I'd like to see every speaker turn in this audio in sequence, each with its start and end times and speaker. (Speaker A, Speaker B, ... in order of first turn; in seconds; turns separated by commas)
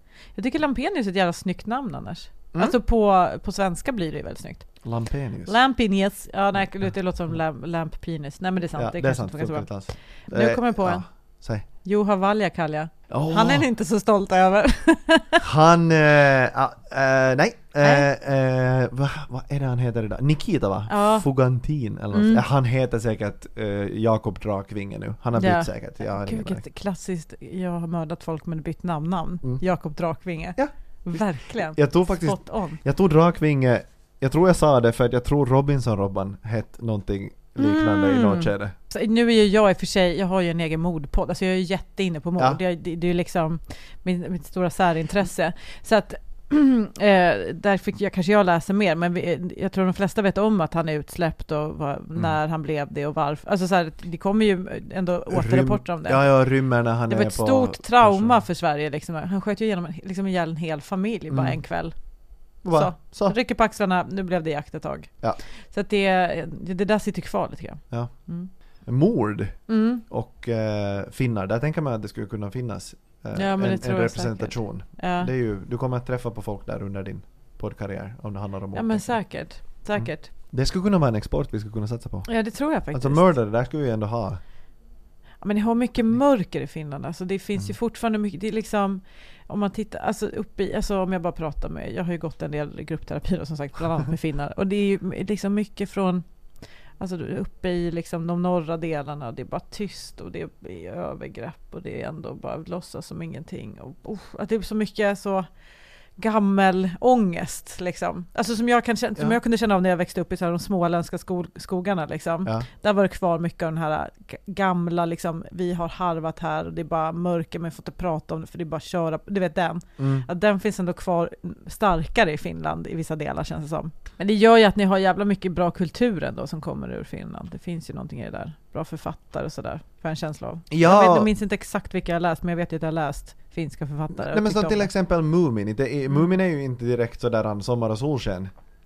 Speaker A: 0.4-4.7, Speaker B: 4.8-5.5, Speaker A: 5.5-9.7, Speaker B: 8.8-11.7, Speaker A: 10.3-11.0, Speaker A: 11.8-15.4, Speaker B: 13.1-13.7, Speaker B: 15.4-26.6, Speaker A: 17.8-18.1, Speaker A: 20.9-21.3, Speaker A: 22.1-22.4, Speaker A: 25.4-32.8, Speaker B: 30.6-38.7, Speaker A: 37.6-56.2, Speaker B: 55.3-58.4, Speaker A: 57.1-61.9, Speaker B: 61.3-61.6, Speaker B: 62.6-63.4, Speaker A: 62.7-65.1, Speaker A: 65.6-68.5, Speaker B: 68.9-79.2, Speaker A: 69.7-70.0, Speaker A: 73.3-75.3, Speaker A: 78.7-80.3, Speaker B: 80.0-82.3, Speaker A: 82.3-83.3, Speaker B: 82.9-84.4, Speaker A: 85.4-96.2, Speaker A: 97.0-105.5, Speaker A: 106.2-134.9, Speaker B: 120.0-120.3, Speaker B: 130.7-131.3, Speaker B: 134.2-138.5